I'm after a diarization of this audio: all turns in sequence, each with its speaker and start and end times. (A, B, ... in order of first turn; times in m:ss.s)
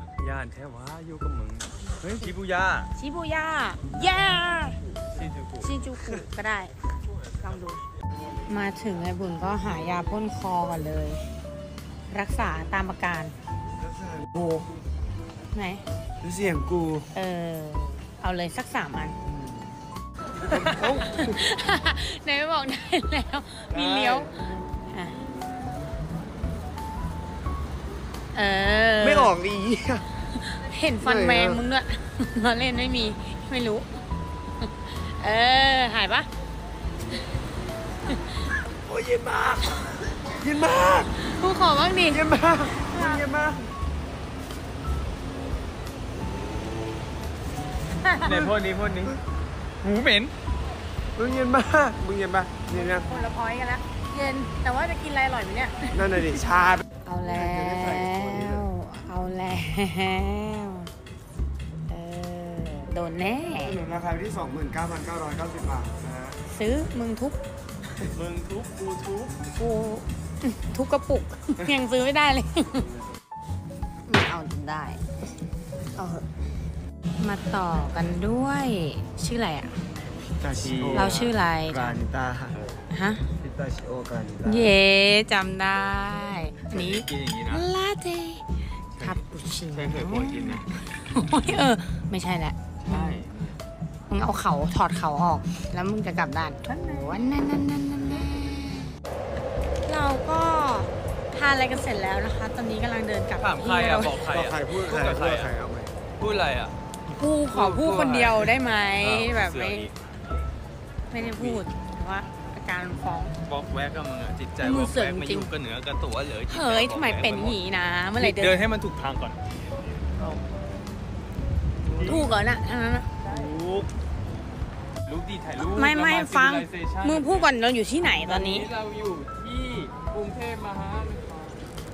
0:00.2-0:02.9 A
0:02.9-0:04.8 B
0:05.1-0:05.8 A
0:05.6-0:06.7 B
0:07.4-0:07.8 B
0:08.5-0:11.4 B
0:12.1-0:13.3 B
0:13.8-0:14.7 C
0:15.5-0:15.8 B
0:16.2-0:17.1 C
0:17.1-0:19.2 B
0:19.3-0:19.6 C
0:20.5-0:21.4 C
0:20.6-0:25.1 B
0:23.7-0:24.4 C
0:28.3-0:29.3 B
0:29.0-0:30.0 C
0:30.3-0:34.0 B
0:31.0-0:31.6 C
0:34.6-0:36.3 B
0:38.0-0:38.5 B
0:38.8-0:41.1 C
0:41.1-0:43.2 B
0:42.1-0:43.7 C
0:47.9-0:48.3 B
0:48.2-0:49.2 A
0:49.8-0:50.3 A
0:51.2-0:53.1 C
0:52.7-0:56.0 B
0:55.9-0:58.7 C
0:57.0-1:00.9 B
1:01.9-1:03.8 B
1:03.6-1:06.4 C
1:06.4-1:07.4 B
1:08.0-1:09.3 A
1:09.5-1:12.9 B
1:14.1-1:15.1 B
1:16.0-1:16.3 B
1:17.2-1:19.8 B
1:20.4-1:22.6 C
1:20.6-1:21.3 A
1:20.9-1:22.0 B
1:22.9-1:23.2 B
1:23.4-1:24.7 C
1:24.4-1:33.2 B
1:26.7-1:27.7 A
1:29.0-1:30.6 A
1:32.8-1:33.6 A
1:34.1-1:38.9 B
1:39.8-1:44.2 B
1:43.4-1:45.5 A
1:44.2-1:45.9 C
1:46.2-1:46.8 A
1:47.1-1:49.9 B
1:47.5-1:49.9 A
1:51.1-1:53.3 B
1:51.2-1:51.6 A
1:53.4-1:57.6 A
1:54.6-1:55.5 B
1:56.5-1:58.6 B
1:58.2-1:59.4 A
2:01.8-2:02.4 A
2:01.9-2:02.3 C
2:02.0-2:03.1 B
2:03.2-2:03.9 A
2:05.1-2:07.5 A
2:05.6-2:08.7 B
2:08.2-2:11.6 A